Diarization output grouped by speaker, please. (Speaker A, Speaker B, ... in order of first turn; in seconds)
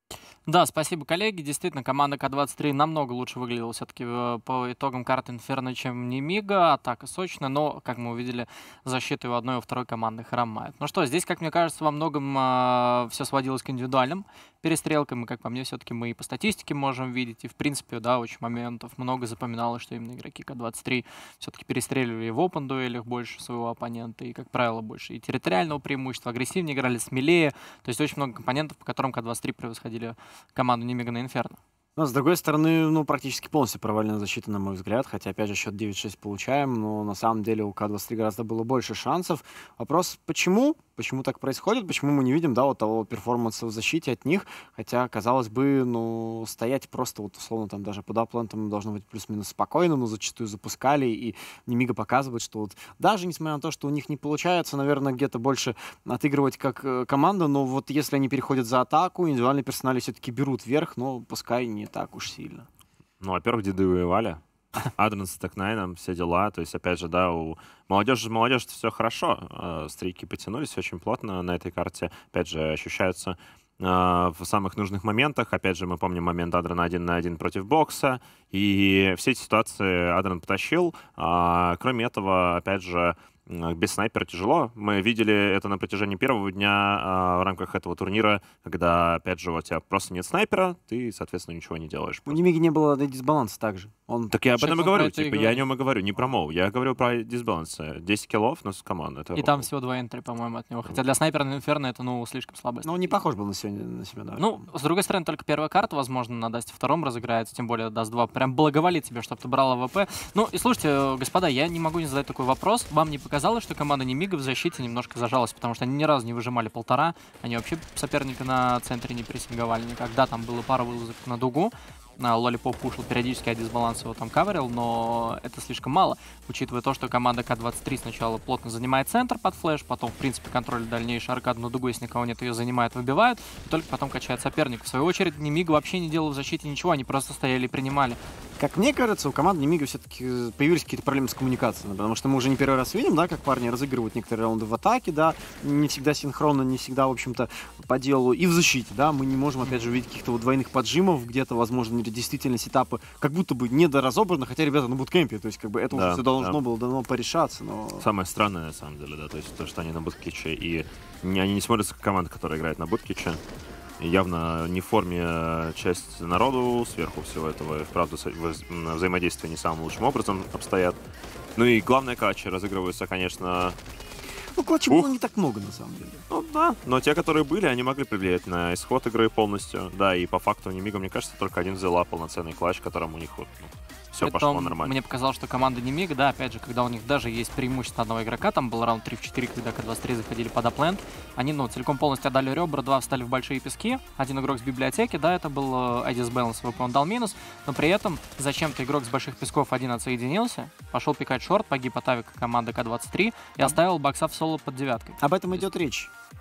Speaker A: 0.5-31.6, 94.6-95.7, 99.3-103.1, 104.4-138.2, 184.2-205.7
Speaker B: 32.0-62.7, 92.3-94.4, 102.8-104.6, 138.6-158.1, 174.5-176.2, 205.2-206.1
Speaker C: 63.2-92.4, 94.3-99.7, 155.9-156.6, 158.0-163.4, 164.0-171.0, 171.6-173.8, 176.3-184.9